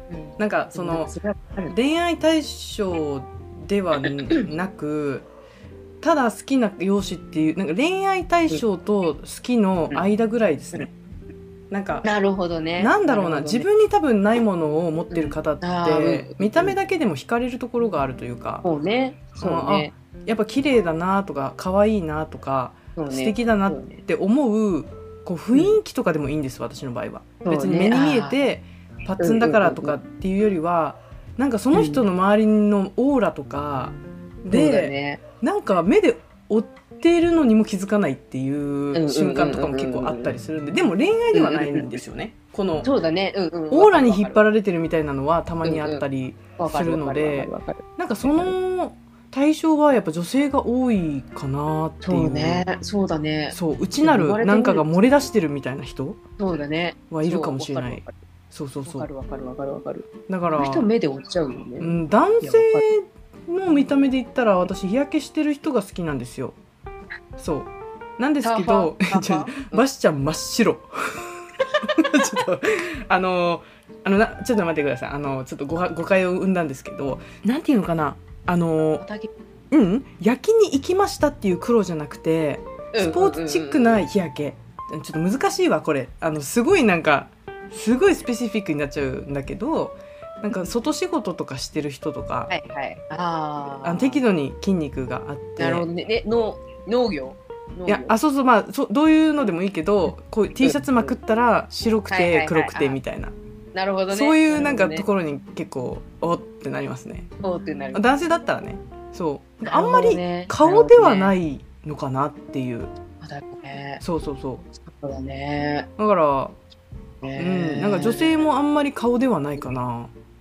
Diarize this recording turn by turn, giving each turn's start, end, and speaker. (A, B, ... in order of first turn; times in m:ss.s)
0:00.1-0:01.7 A
0:00.4-0:01.1 B
0:01.7-0:05.2 B
0:06.0-0:10.9 B
0:11.7-0:12.0 B
0:12.0-0:13.7 A
0:12.8-0:18.6 B
0:15.1-0:16.8 A
0:18.6-0:19.9 A
0:19.4-0:42.9 B
0:23.0-0:24.0 A
0:27.4-0:28.4 A
0:29.2-0:30.0 A
0:31.7-0:32.0 A
0:34.5-0:35.2 A
0:38.9-0:40.3 A
0:41.3-0:41.9 A
0:42.8-0:44.4 A
0:43.7-0:52.7 B
0:45.6-0:46.0 A
0:46.6-0:48.5 A
0:52.0-0:55.1 A
0:53.5-0:56.2 B
0:56.4-0:58.2 A
0:57.1-0:59.1 B
0:58.8-1:02.8 A
1:00.3-1:00.8 B
1:01.8-1:06.6 B
1:07.4-1:19.0 B
1:08.4-1:09.8 A
1:19.0-1:19.3 A
1:19.7-1:32.5 B
1:22.9-1:24.0 A
1:32.5-1:34.2 A
1:33.8-1:35.8 B
1:35.6-1:38.2 A
1:37.9-1:43.3 B
1:40.6-1:41.1 A
1:42.1-1:43.0 A
1:43.7-1:45.0 A
1:44.1-1:47.3 B
1:47.4-1:48.0 A
1:47.9-1:52.9 B
1:49.6-1:51.4 A
1:53.2-1:54.0 A
1:54.0-1:54.7 B
1:54.8-1:55.9 A
1:56.0-1:56.6 B
1:57.2-1:58.4 A
1:57.4-2:00.1 B